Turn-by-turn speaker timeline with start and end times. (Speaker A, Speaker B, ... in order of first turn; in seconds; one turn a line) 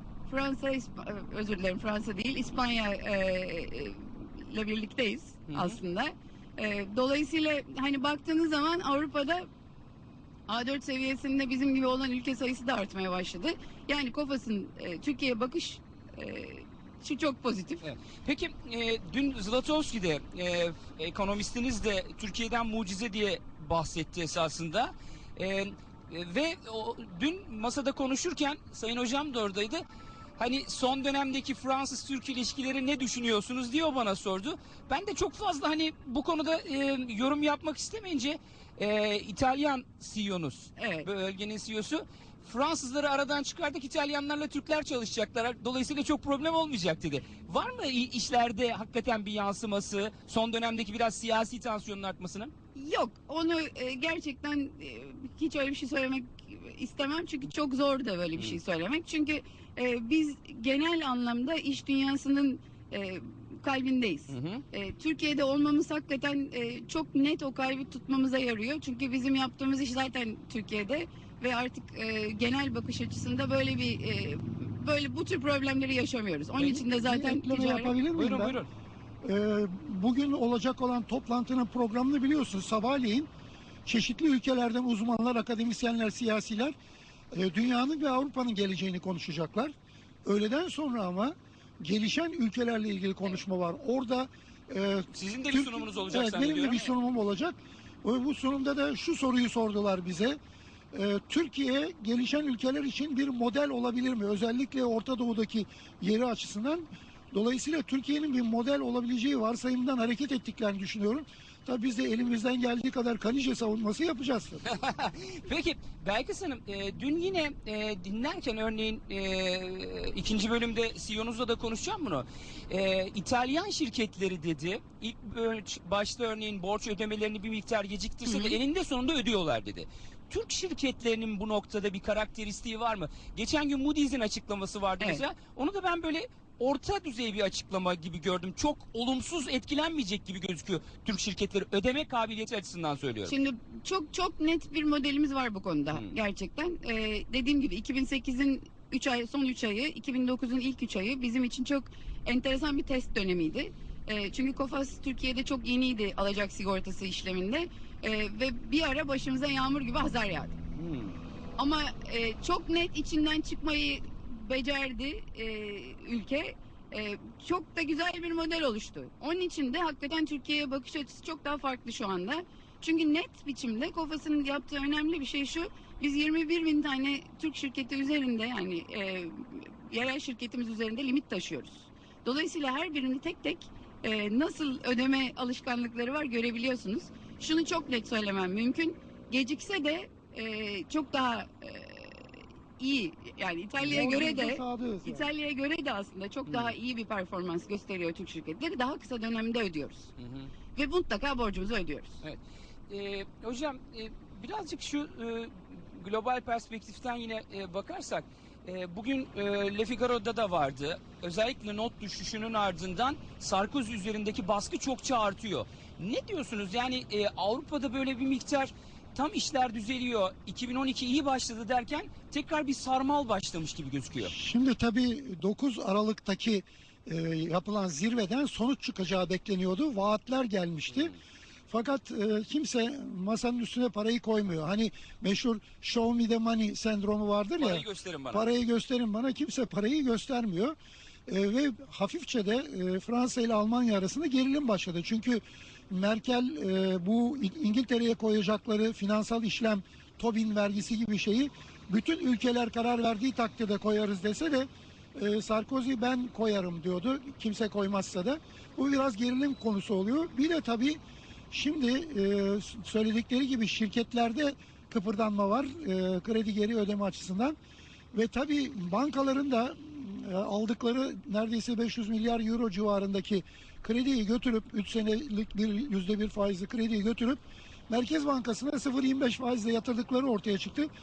Speaker A: 0.3-9.5
Speaker B: 5.5-5.8
Speaker A: 10.5-17.9
Speaker B: 17.8-29.8
Speaker B: 30.4-52.5
Speaker A: 40.8-41.1
Speaker A: 52.7-78.0
Speaker B: 64.3-64.6
Speaker C: 76.7-78.5
Speaker B: 78.1-78.7
Speaker C: 79.2-83.3
Speaker C: 83.8-86.8
Speaker C: 87.3-89.7
Speaker C: 90.2-100.4
Speaker B: 95.1-96.9
Speaker C: 100.9-114.6
Speaker B: 114.6-143.3
Speaker A: 128.2-128.6
Speaker A: 143.2-160.6
Speaker B: 160.8-161.2
Speaker A: 161.6-200.1
Speaker C: 193.8-195.2
Speaker B: 196.5-196.7
Speaker B: 200.2-200.5
Speaker A: 200.7-202.2
Speaker B: 202.2-224.3
Speaker C: 224.2-231.1
Speaker B: 230.9-231.2
Speaker C: 231.7-240.8
Speaker B: 237.6-238.5
Speaker C: 241.3-261.0
Speaker C: 261.5-267.6
Speaker C: 268.1-280.9